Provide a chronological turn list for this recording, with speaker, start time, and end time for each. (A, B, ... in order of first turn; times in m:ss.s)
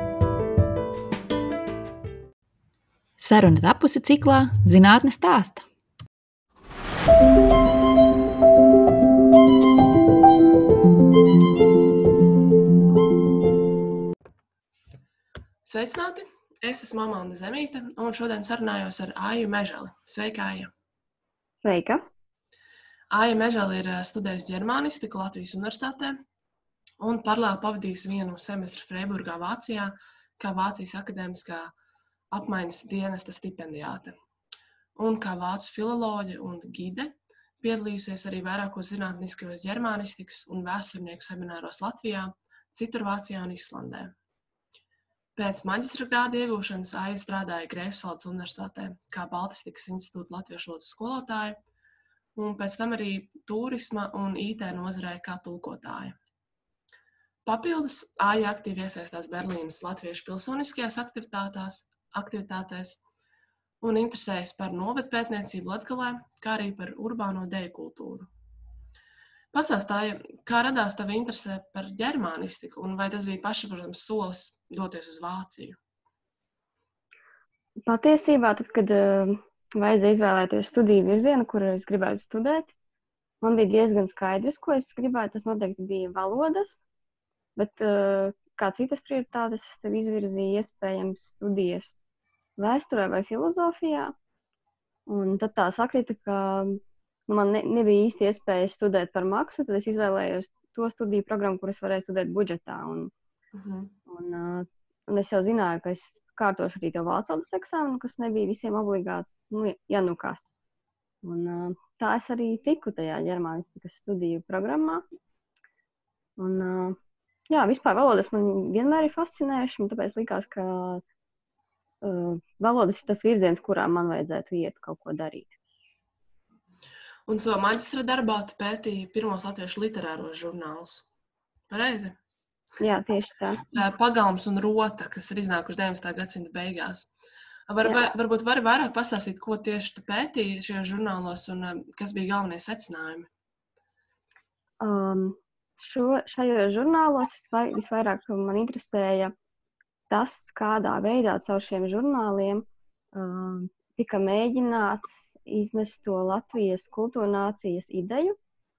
0:03.2-0:05.6 A
0:15.6-0:20.7 B
0:21.6-0:22.0 C
0:23.1-0:26.2 B
0:27.0-0:31.7 B
0:32.3-0:34.1 B
0:35.0-0:44.1 B
0:45.4-0:51.6 B
0:52.4-0:56.2 B
0:57.4-1:03.0 B
1:03.8-1:08.3 B
1:09.5-1:15.8 B
1:17.9-1:22.7 C
1:23.4-1:26.8 C
1:27.6-1:32.0 C
1:32.6-1:34.1 C
1:35.1-1:43.1 C
1:43.5-1:43.9 B
1:44.1-1:50.5 C
1:51.2-1:55.0 C
1:56.4-1:57.0 C
1:57.5-2:01.0 C
2:02.0-2:05.5 C
2:07.3-2:11.1 B
2:11.7-2:12.2 B
2:12.8-2:13.7 C
2:13.7-2:17.1 B
2:17.7-2:23.3 B
2:24.8-2:29.3 C
2:30.1-2:38.4 C